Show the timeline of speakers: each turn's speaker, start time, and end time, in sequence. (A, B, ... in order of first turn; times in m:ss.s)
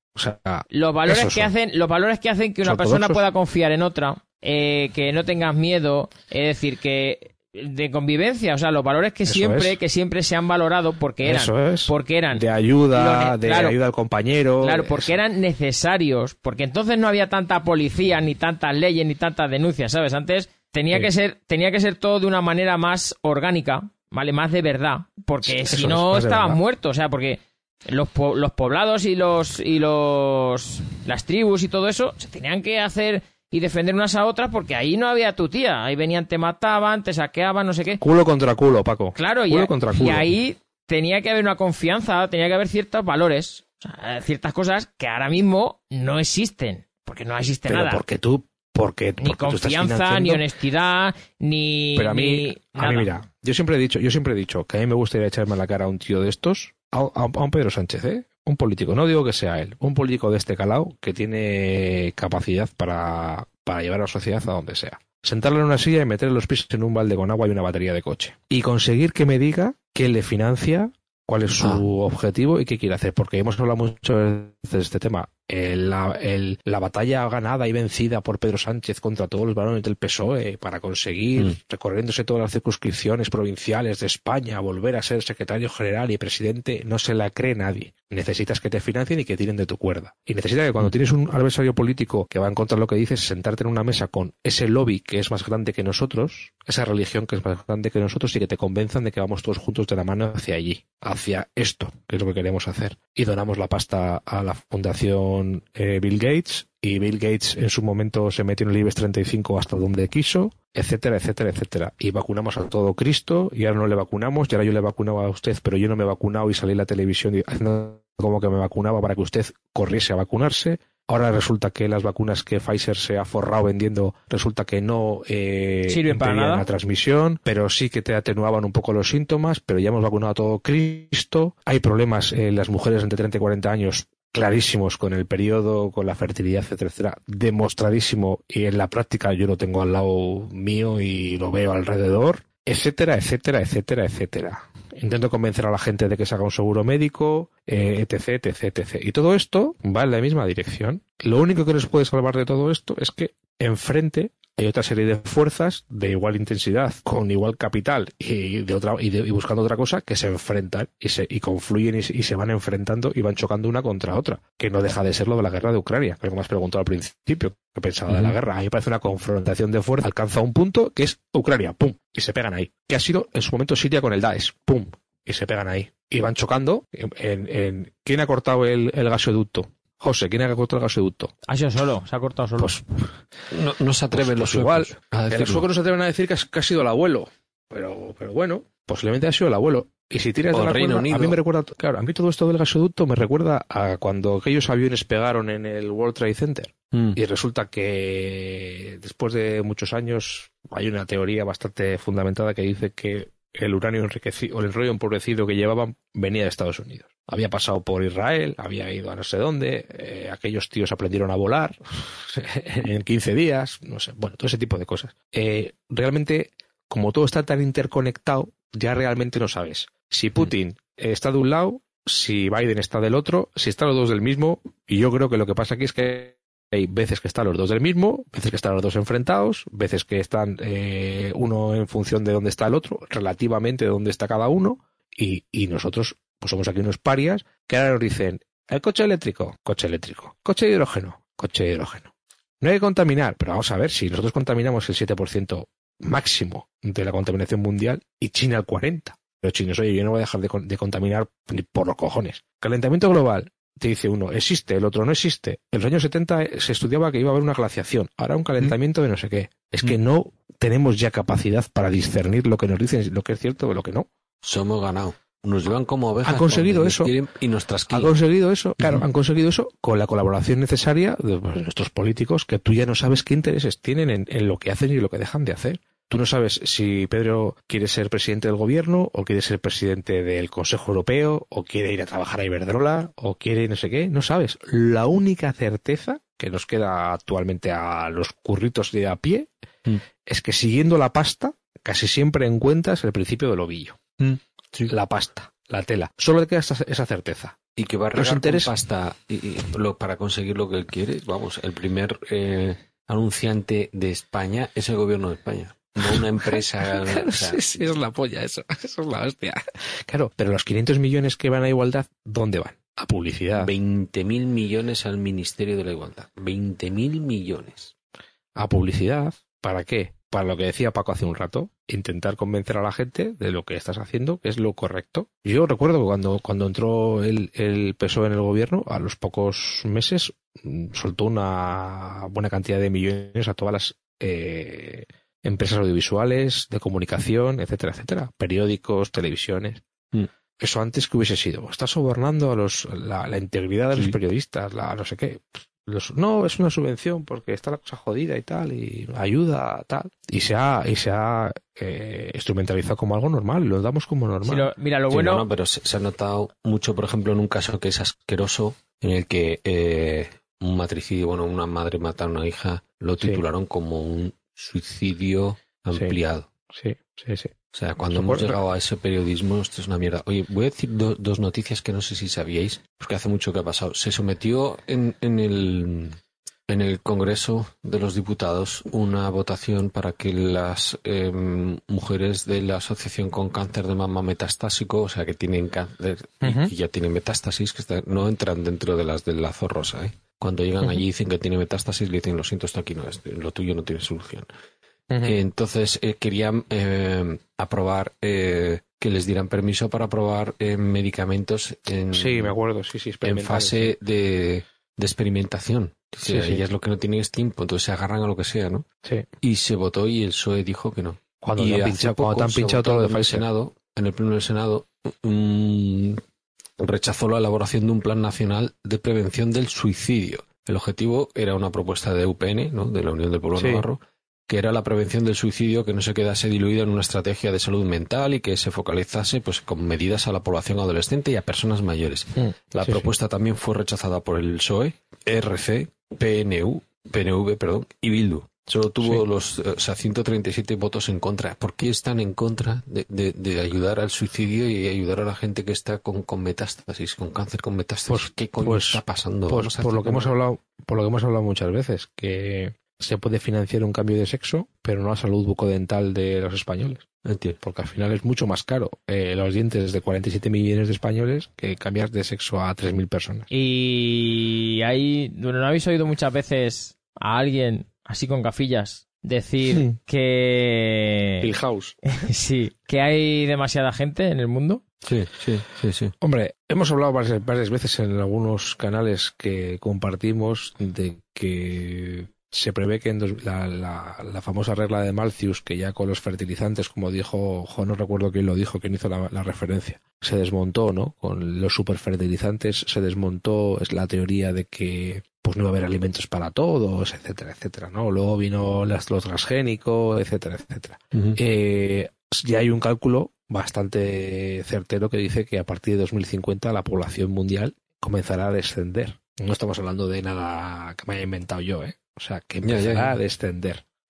0:00.1-0:01.5 A
0:00.7-0:13.8 B
0:02.6-0:03.2 A
0:09.2-0:09.8 A
0:11.2-0:15.2 A
0:14.6-0:38.0 B
0:25.4-0:26.6 A
0:38.0-0:40.3 A
0:39.1-0:48.0 B
0:47.7-0:50.4 A
0:49.2-0:53.1 B
0:51.9-3:01.3 A
2:05.9-2:06.7 B
2:48.1-2:48.4 C
3:01.5-3:02.8 B
3:02.6-3:03.1 A
3:03.5-3:05.7 C
3:04.1-4:24.1 A
3:10.5-3:11.4 C
3:16.9-3:17.2 C
4:24.4-4:28.1 C
4:26.2-4:27.1 A
4:27.9-4:49.5 A
4:28.8-4:29.0 C
4:50.2-4:54.0 A
4:54.2-4:54.9 C
4:54.9-4:57.6 A
4:57.8-5:07.8 C
4:58.1-4:58.7 A
5:06.0-5:13.7 A
5:13.6-5:17.9 C
5:18.6-5:39.8 A
5:40.6-5:54.7 A
5:54.4-5:55.4 B
5:55.1-6:06.5 C
6:06.7-6:07.5 A
6:07.7-6:34.5 C
6:08.1-6:08.6 A
6:26.4-6:26.7 A
6:35.1-6:35.4 A
6:35.2-6:42.5 C
6:42.1-6:44.0 A
6:43.2-6:48.8 C
6:46.2-6:46.6 A
6:49.4-6:56.2 C
6:51.4-6:53.4 A
6:56.8-7:30.3 C
7:03.6-7:03.8 A
7:12.4-7:13.1 A
7:28.1-7:37.0 A
7:37.2-7:37.6 C
7:37.6-7:43.5 A
7:43.5-7:51.5 B
7:51.4-7:52.0 A
7:52.1-7:54.8 B
7:55.0-7:56.1 C
7:56.2-8:33.8 A
8:21.1-8:21.4 C
8:32.6-8:33.2 C